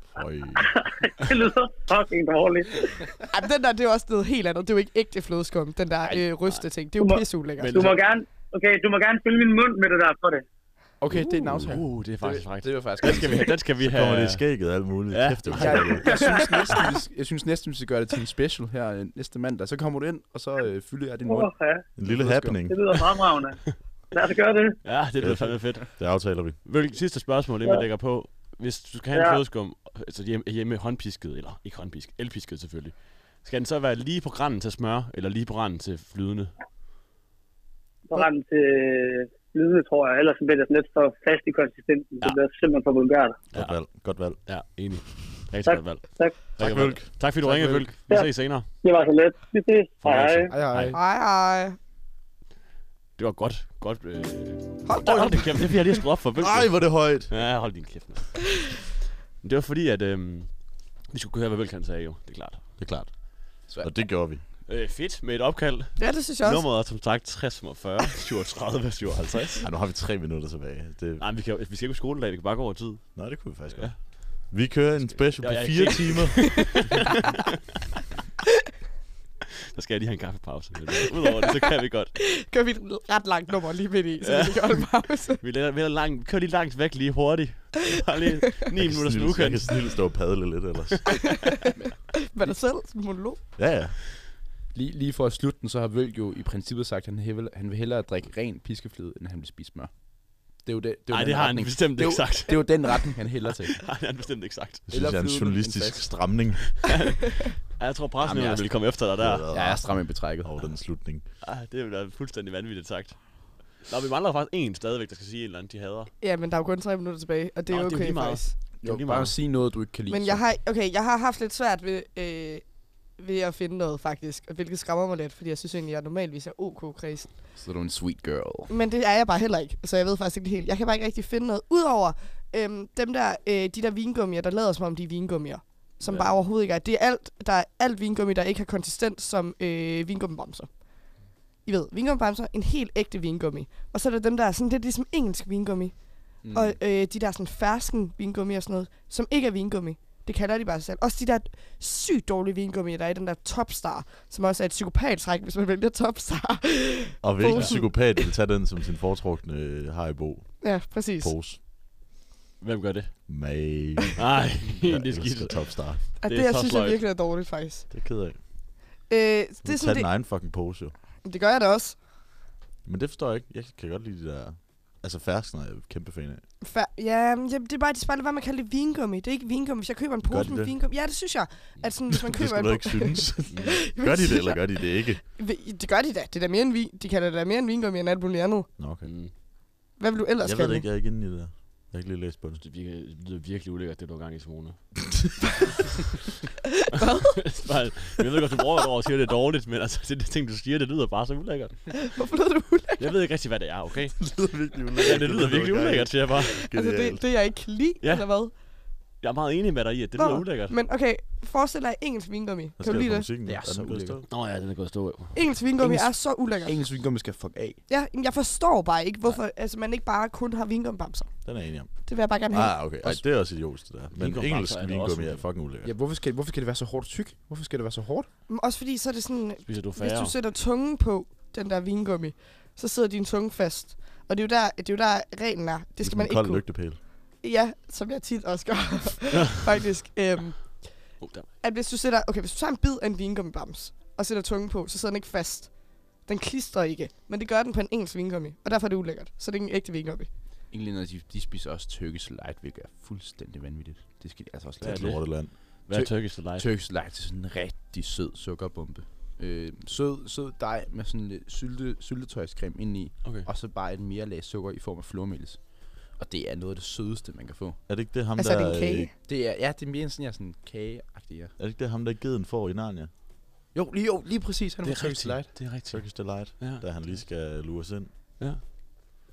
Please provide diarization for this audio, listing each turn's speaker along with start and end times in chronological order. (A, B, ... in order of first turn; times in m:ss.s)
0:00.2-0:00.7 A
0:00.6-0:02.9 B
0:03.3-0:07.9 C
0:07.0-0:10.4 B
0:07.6-0:08.0 D
0:11.0-0:13.6 E
0:11.1-0:16.0 D
0:13.8-0:16.4 A
0:15.5-0:22.7 E
0:16.0-0:16.9 B
0:21.3-0:21.9 B
0:22.0-0:22.8 A
0:22.7-0:24.8 B
0:24.8-0:36.5 D
0:25.2-0:26.6 A
0:29.1-0:29.4 B
0:38.1-0:43.4 B
0:43.5-0:44.4 A
0:43.5-0:48.7 D
0:45.7-0:46.6 B
0:46.6-0:47.1 A
0:47.4-0:48.0 E
0:48.0-0:50.5 B
0:50.0-0:51.0 D
0:50.5-0:51.0 E
0:50.9-0:51.8 C
0:53.2-0:58.8 D
0:54.9-0:55.7 C
0:56.4-0:57.4 A
0:59.4-1:02.6 D
1:02.8-1:04.4 A
1:03.7-1:03.9 E
1:04.7-1:09.7 D
1:06.0-1:06.6 C
1:09.6-1:11.2 A
1:11.2-1:14.0 D
1:13.2-1:16.8 A
1:15.4-1:17.4 D
1:19.7-1:22.1 D
1:22.2-1:25.4 C
1:24.2-1:30.0 D
1:28.8-1:31.1 A
1:32.2-1:33.4 C
1:33.6-1:34.0 A
1:34.7-1:43.8 E
1:41.1-1:43.1 D
1:43.7-1:44.8 D
1:44.9-1:47.0 A
1:44.9-1:46.2 E
1:46.8-1:47.2 D
1:47.8-1:49.5 D
1:48.2-1:48.8 E
1:49.2-1:51.2 A
1:49.5-1:50.6 E
1:51.4-1:56.1 D
1:56.2-1:58.5 C
1:57.7-1:59.4 D
1:58.8-2:00.4 E
2:00.1-2:07.3 C
2:07.6-2:08.7 E
2:08.7-2:21.1 C
2:16.1-2:16.3 D
2:21.6-2:38.3 C
2:26.4-2:26.8 E
2:37.2-2:41.6 A
2:40.6-2:41.3 C
2:42.6-2:43.5 D
2:43.3-2:46.0 A
2:44.2-2:47.0 D
2:46.2-2:47.9 C
2:47.9-2:48.4 A
2:49.1-2:50.1 C
2:49.6-2:50.9 A
2:51.2-2:52.0 C
2:52.8-2:56.4 A
2:56.6-3:08.7 C
3:00.2-3:00.8 A
3:02.1-3:05.2 A
3:03.5-3:03.8 D
3:08.8-3:09.1 A
3:09.0-3:09.3 D
3:10.0-3:10.9 C
3:10.4-3:12.6 A
3:12.6-3:14.8 D
3:16.9-3:17.5 C
3:17.4-3:22.0 D
3:22.0-3:23.1 C
3:23.0-3:26.6 D
3:24.2-3:27.3 A
3:26.7-3:28.5 C
3:28.0-3:28.6 D
3:29.2-3:30.8 D
3:30.2-3:33.3 C
3:32.8-3:34.3 A
3:33.5-3:34.2 E
3:34.3-3:35.4 D
3:35.4-3:36.8 C
3:35.8-3:37.8 E
3:37.9-3:42.8 C
3:41.4-3:45.9 A
3:44.1-3:45.5 D
3:45.8-3:48.3 E
3:48.5-4:10.3 C
3:49.7-3:50.3 D
3:56.0-3:57.0 A
4:01.2-4:01.5 D
4:10.7-4:15.3 E
4:14.8-4:16.7 D
4:14.8-4:15.6 A
4:15.9-4:27.8 E
4:27.9-4:29.1 A
4:28.4-4:29.1 C
4:29.3-4:31.6 E
4:31.6-4:33.1 A
4:33.7-4:35.6 E
4:34.8-4:37.2 D
4:35.8-4:38.1 A